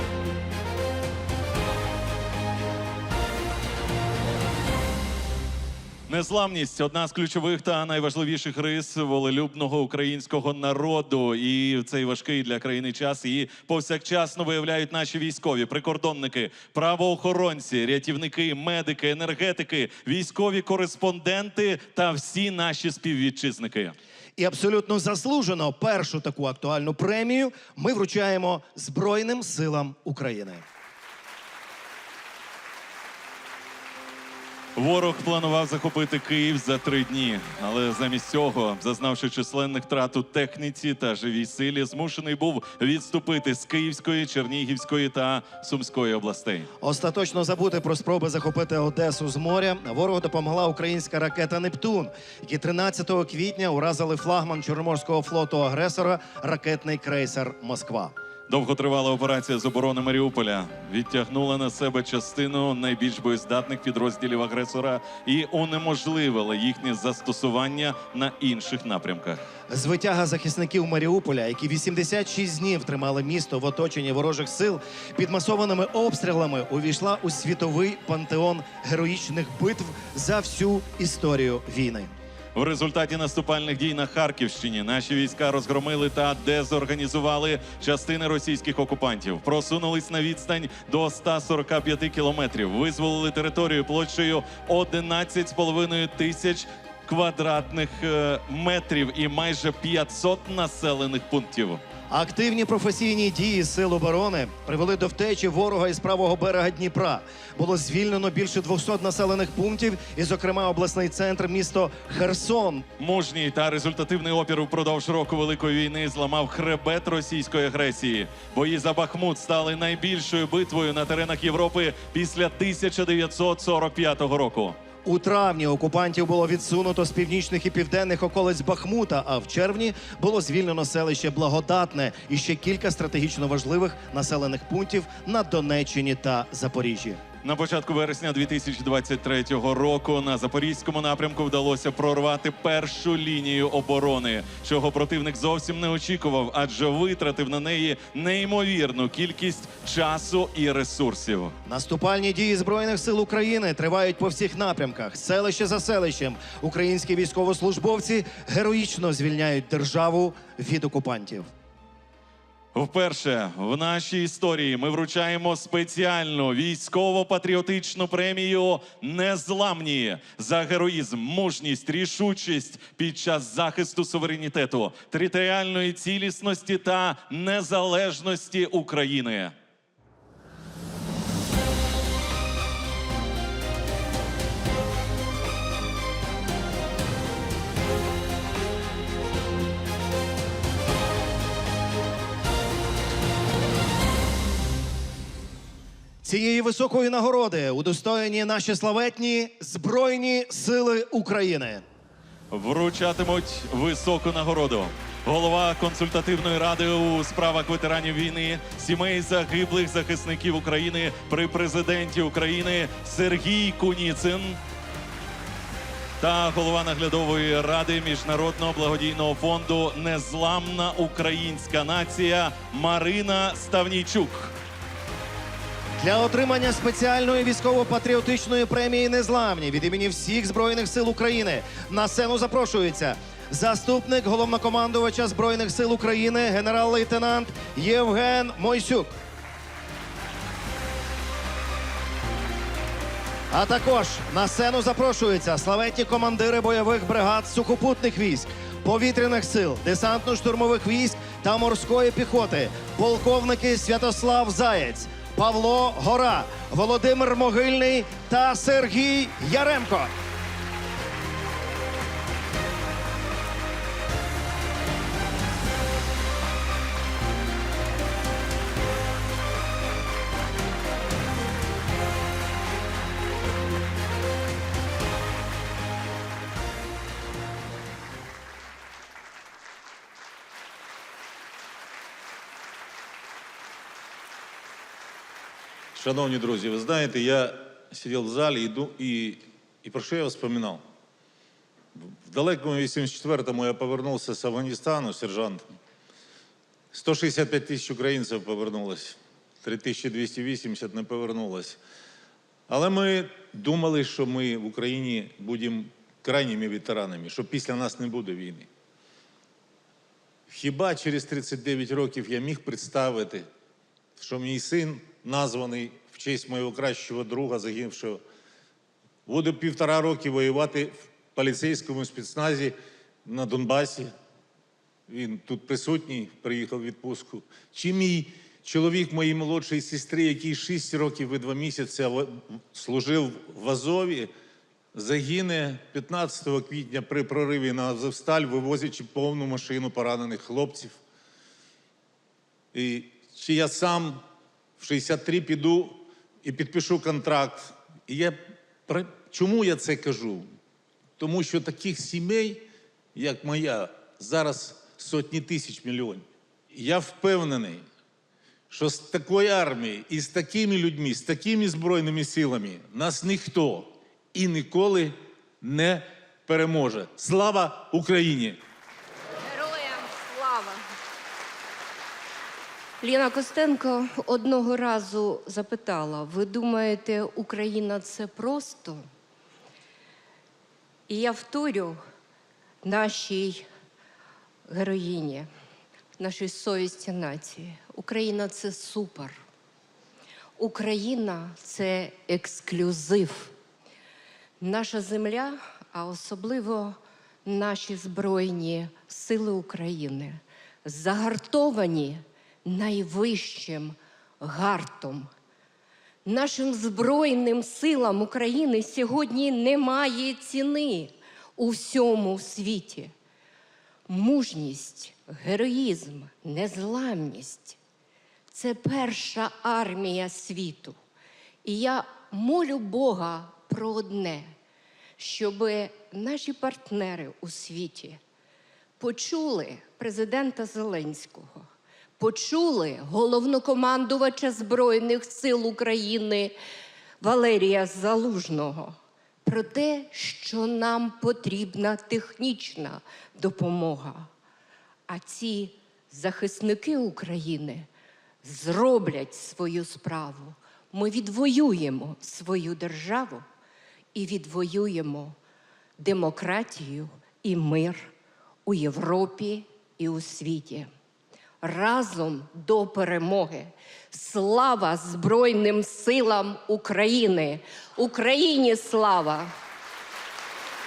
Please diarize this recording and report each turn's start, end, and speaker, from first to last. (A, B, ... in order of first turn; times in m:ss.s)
0:06.1-0:23.9 A
0:24.4-0:30.6 B
0:34.8-0:46.7 A
0:46.8-0:58.1 B
0:58.5-1:09.4 A
1:09.7-1:22.1 B
1:22.5-1:41.8 A
1:42.1-1:52.8 B
1:53.0-2:04.8 A
2:05.0-2:17.2 B
2:17.4-2:31.5 A
2:31.6-2:41.5 B
2:42.7-2:59.5 A
3:16.2-3:21.8 B
3:22.5-3:34.6 A
3:36.2-3:44.5 A
3:46.0-3:59.1 B
4:03.5-4:20.1 B
4:45.9-4:50.8 C
4:51.9-4:55.6 C
4:56.9-5:01.8 C
5:02.7-5:08.7 C
5:10.5-5:13.4 C
5:14.2-5:18.2 C
5:19.3-5:24.1 C
5:25.1-5:34.3 C
5:34.9-5:41.0 C
5:42.7-5:44.2 C
5:44.8-5:50.4 C
5:51.2-5:57.8 C
5:58.7-6:08.6 C
6:09.4-6:10.8 D
6:13.0-6:19.0 D
6:21.1-6:22.0 D
6:22.8-6:23.7 D
6:24.7-6:25.5 D
6:26.2-6:29.4 D
6:30.6-6:33.5 D
6:34.6-6:45.3 D
6:46.2-6:53.1 D
6:54.1-6:57.8 D
6:58.5-7:01.0 D
7:01.6-7:04.5 D
7:05.2-7:08.2 D
7:09.0-7:11.7 D
7:12.2-7:16.6 D
7:17.2-7:24.3 D
7:25.1-7:27.9 D
7:28.4-7:33.4 D
7:34.1-7:35.4 D
7:36.0-7:38.1 D
7:38.6-7:40.9 D
7:41.6-7:49.5 D